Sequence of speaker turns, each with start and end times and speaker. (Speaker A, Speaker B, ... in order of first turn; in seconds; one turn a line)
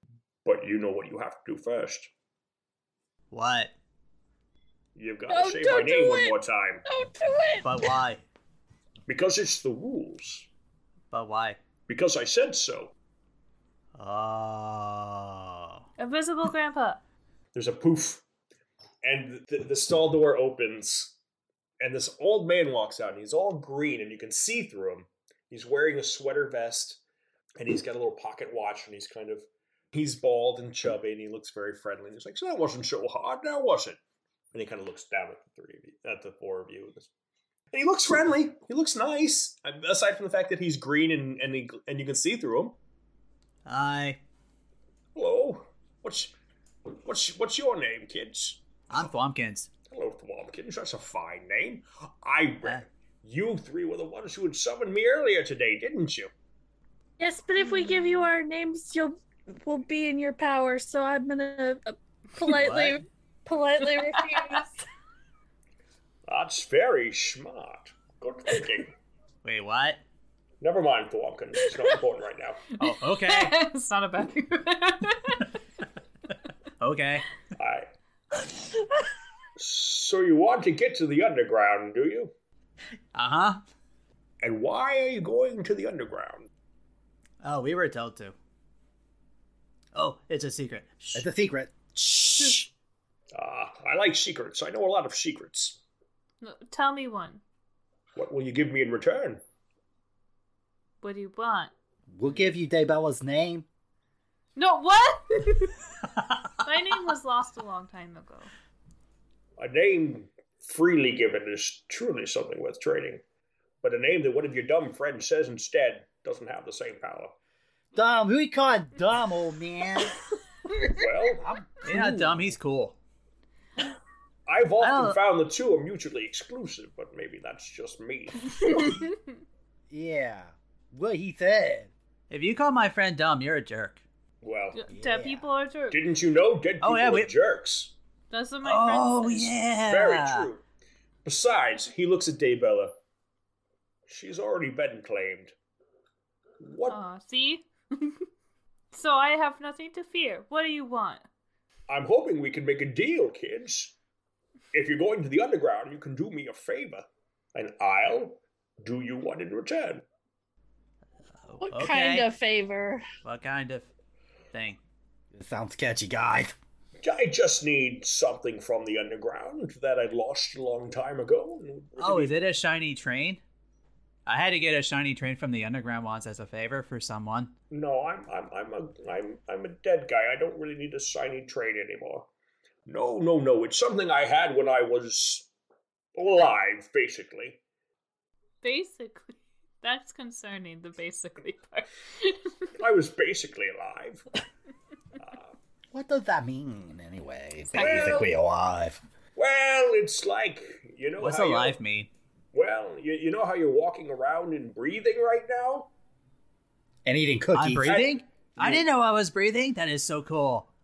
Speaker A: 0.5-2.1
Speaker B: 3.3-3.7
Speaker A: 5.0-6.8
Speaker C: 5.3-8.0
Speaker B: 7.6-8.2
Speaker A: 9.1-10.5
Speaker B: 11.1-11.6
Speaker A: 11.9-12.9
Speaker B: 14.0-15.8
Speaker D: 16.0-17.0
Speaker A: 17.5-18.2
Speaker A: 19.0-21.2
Speaker A: 21.8-27.0
Speaker A: 27.6-34.0
Speaker A: 34.5-37.1
Speaker A: 37.7-42.8
Speaker B: 43.7-44.2
Speaker A: 45.1-46.3
Speaker A: 46.9-49.0
Speaker B: 48.9-49.7
Speaker A: 49.9-56.3
Speaker C: 57.2-64.7
Speaker D: 57.6-58.3
Speaker B: 62.5-63.0
Speaker D: 63.9-64.6
Speaker A: 66.3-69.0
Speaker B: 69.4-70.0
Speaker A: 70.6-72.7
Speaker B: 72.8-73.6
Speaker D: 72.8-75.5
Speaker B: 76.8-77.3
Speaker A: 77.6-77.9
Speaker A: 79.6-82.3
Speaker B: 83.1-83.6
Speaker A: 84.4-86.5
Speaker B: 87.4-88.3
Speaker B: 89.9-91.3
Speaker E: 91.1-92.7
Speaker A: 93.3-95.8
Speaker D: 96.4-97.4
Speaker A: 98.2-99.4
Speaker D: 101.0-101.7
Speaker E: 102.1-103.7
Speaker D: 104.6-105.8
Speaker D: 106.6-108.5
Speaker A: 109.6-113.2
Speaker A: 113.8-117.3
Speaker E: 117.9-120.2
Speaker A: 120.8-122.1
Speaker E: 121.4-122.6
Speaker B: 121.8-123.0
Speaker A: 124.5-129.0
Speaker B: 124.8-125.2
Speaker E: 129.9-131.9
Speaker B: 132.3-134.0
Speaker A: 134.4-134.8
Speaker D: 134.7-136.0
Speaker E: 134.9-135.5
Speaker A: 135.9-137.9
Speaker B: 136.8-137.3
Speaker D: 138.3-139.6
Speaker B: 138.6-140.5
Speaker A: 139.8-140.6
Speaker A: 141.2-142.9
Speaker A: 144.1-145.5
Speaker A: 146.6-147.0
Speaker D: 146.9-148.3
Speaker D: 148.9-151.3
Speaker A: 151.9-153.9
Speaker A: 154.7-160.0
Speaker B: 161.5-162.3
Speaker C: 161.6-163.0
Speaker B: 163.2-163.9
Speaker B: 164.5-164.8
Speaker E: 165.3-166.6
Speaker A: 167.0-172.4
Speaker B: 172.0-173.4
Speaker B: 174.3-177.5
Speaker A: 177.7-182.3
Speaker A: 182.9-185.5
Speaker A: 186.2-187.6
Speaker D: 188.6-192.7
Speaker A: 192.8-194.2
Speaker A: 195.2-195.5
Speaker E: 195.9-199.0
Speaker D: 197.8-198.1
Speaker A: 197.8-198.3
Speaker A: 199.4-201.8
Speaker B: 201.2-202.1
Speaker A: 202.5-205.9
Speaker E: 207.1-208.8
Speaker B: 207.5-210.7
Speaker A: 207.8-208.1